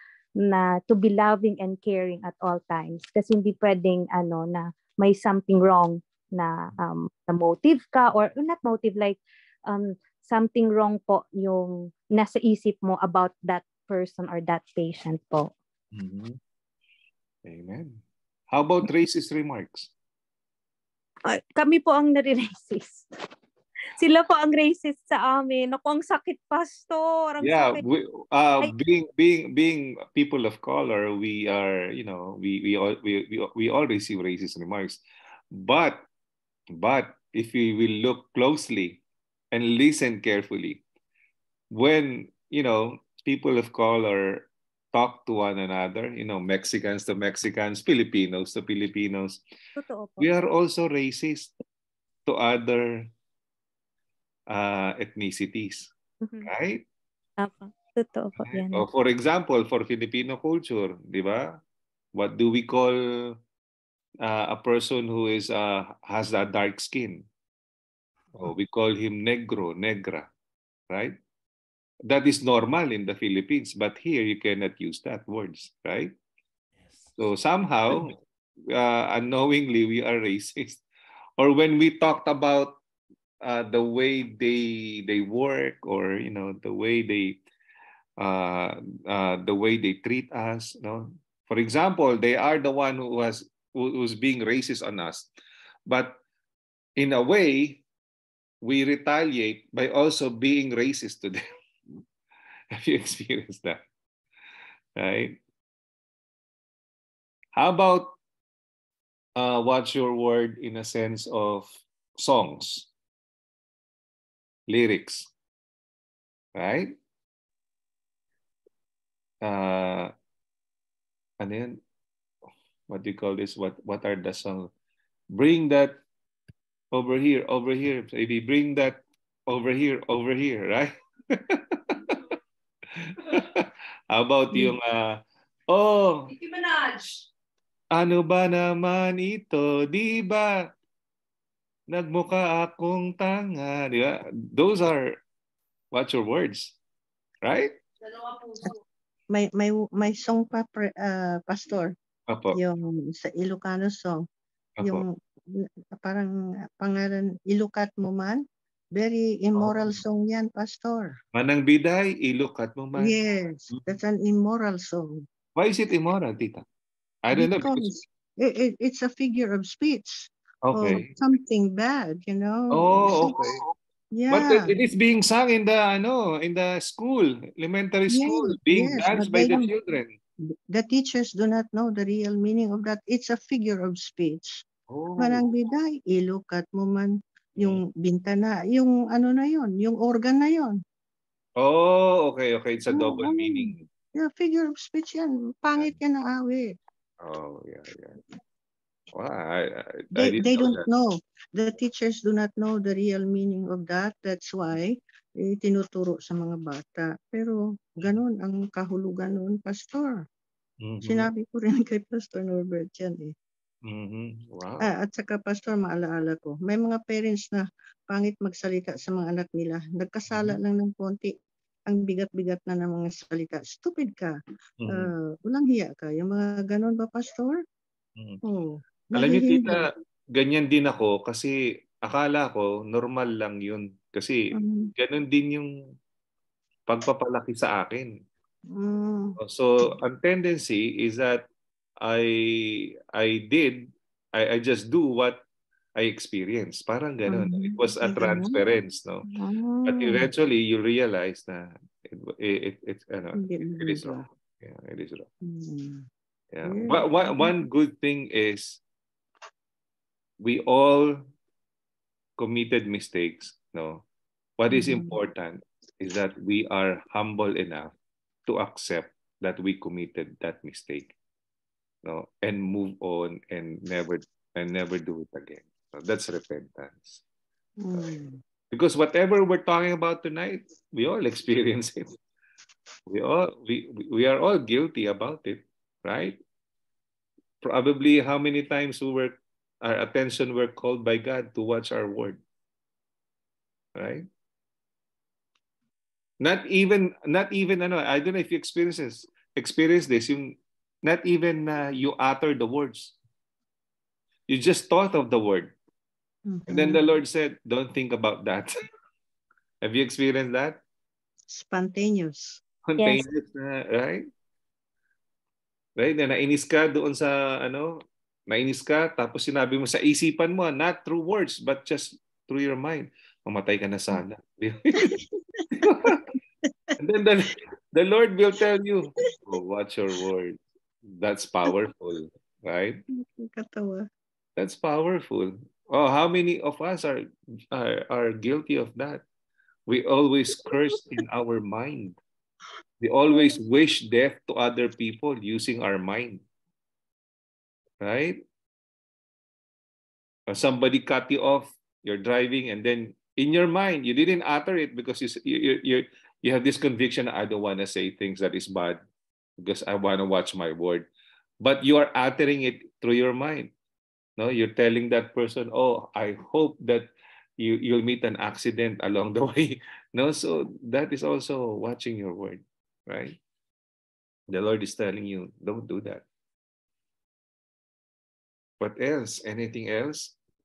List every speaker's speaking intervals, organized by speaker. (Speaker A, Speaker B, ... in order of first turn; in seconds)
Speaker A: 0.4-15.5, 21.2-23.1, 24.0-27.8, 49.8-50.3, 56.2-56.5, 57.4-58.9, 136.3-137.2, 148.1-148.6, 313.0-313.2
Speaker B: 15.9-16.4, 17.4-19.9, 27.4-35.0, 35.5-36.0, 36.7-40.8, 41.7-49.4, 50.2-51.5, 52.3-53.1, 54.5-55.9, 56.4-56.8, 58.5-61.6, 62.1-63.4, 64.2-67.2, 68.3-70.3, 70.9-71.2, 72.0-76.1, 77.2-78.1, 78.7-80.8, 81.4-82.8, 83.4-87.4, 88.2-95.3, 95.9-96.2, 97.0-97.8, 98.6-101.4, 102.7-103.8, 105.0-105.4, 107.5-108.1, 109.4-112.9, 114.7-115.3, 116.5-116.9, 119.4-120.1, 121.4-121.8, 122.9-124.7, 125.3-126.0, 126.9-132.2, 133.0-136.3, 137.9-140.7, 141.9-145.2, 145.9-146.7, 147.4-147.8, 152.3-152.6, 154.8-155.0, 159.6-160.0, 161.3-163.1, 165.6-166.6, 167.2-167.9, 170.6-171.1, 172.7-173.7, 174.3-180.2, 184.9-185.4, 191.6-193.9, 197.2-198.2, 199.1-200.9, 210.8-211.3, 213.8-214.9, 220.3-220.6, 224.8-225.1, 229.1-229.8, 230.3-234.4, 235.0-235.7, 236.9-238.1, 239.4-241.4, 242.0-245.4, 246.0-249.2, 249.9-255.3, 256.5-258.8, 260.4-261.3, 262.4-264.0, 264.6-267.9, 268.5-271.1, 272.0-277.2, 278.7-282.1, 283.1-286.4, 287.6-292.4, 293.9-294.3, 296.4-303.1, 304.5-305.7, 306.7-308.7, 309.8-310.8, 312.9-314.3, 316.0-325.1, 325.8-326.2, 327.0-330.6, 331.1-333.0, 334.6-339.2, 339.9-342.2, 343.0-346.4, 348.0-348.4, 350.5-359.0, 359.6-361.1, 361.6-363.7, 364.4-367.1, 367.6-373.4, 374.5-376.2, 378.8-380.3
Speaker C: 149.3-151.9, 152.5-154.2, 154.8-158.4, 158.9-161.2, 162.9-165.2, 167.3-173.4, 174.1-174.7, 178.1-179.7, 180.7-184.6, 185.2-190.8, 192.9-196.7, 200.1-210.2, 211.0-213.3, 214.8-221.3, 221.9-224.4, 224.9-227.6, 228.4-229.8, 234.5-234.9, 238.7-239.4, 247.3-248.6, 249.2-250.3, 253.3-254.2, 255.4-256.0, 256.6-257.5, 264.7-265.2, 277.8-278.4, 306.4-307.1, 311.5-312.6, 324.9-325.2, 325.8-326.2, 333.1-334.1, 340.7-341.0